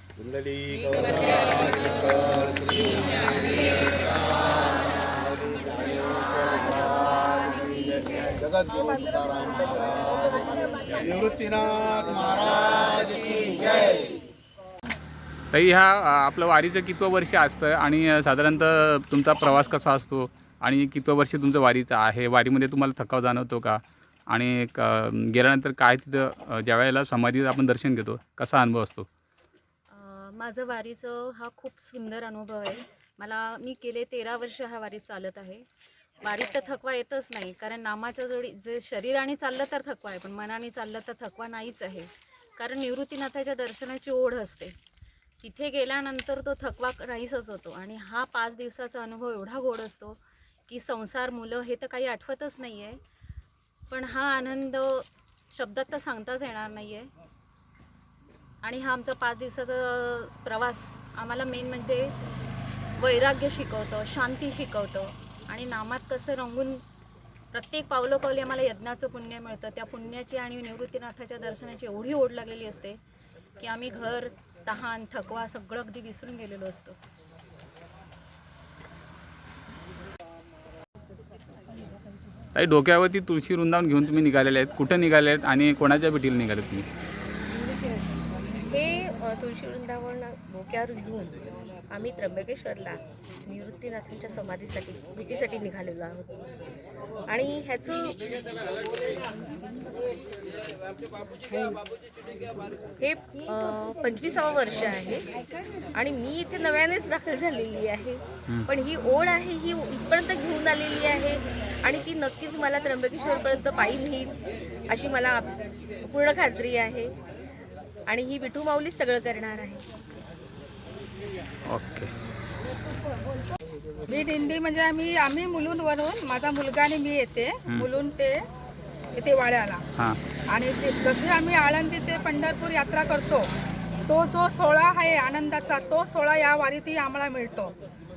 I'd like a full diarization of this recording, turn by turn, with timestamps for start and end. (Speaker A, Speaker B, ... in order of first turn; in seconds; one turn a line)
Speaker A: 0.2-3.2
Speaker A: 5.5-6.9
Speaker A: 8.5-9.7
Speaker A: 11.0-13.6
Speaker B: 15.5-29.1
Speaker C: 29.9-35.6
Speaker C: 36.2-44.7
Speaker C: 45.4-53.0
Speaker C: 53.9-57.1
Speaker C: 58.6-62.1
Speaker C: 63.0-66.8
Speaker C: 67.5-73.0
Speaker C: 73.6-77.0
Speaker B: 82.5-86.8
Speaker D: 87.5-96.4
Speaker D: 97.3-98.2
Speaker D: 103.0-105.2
Speaker D: 105.9-114.3
Speaker D: 114.9-117.1
Speaker D: 118.1-119.8
Speaker B: 121.7-122.1
Speaker E: 124.1-128.4
Speaker E: 129.1-129.8
Speaker E: 130.5-133.5
Speaker E: 134.1-137.7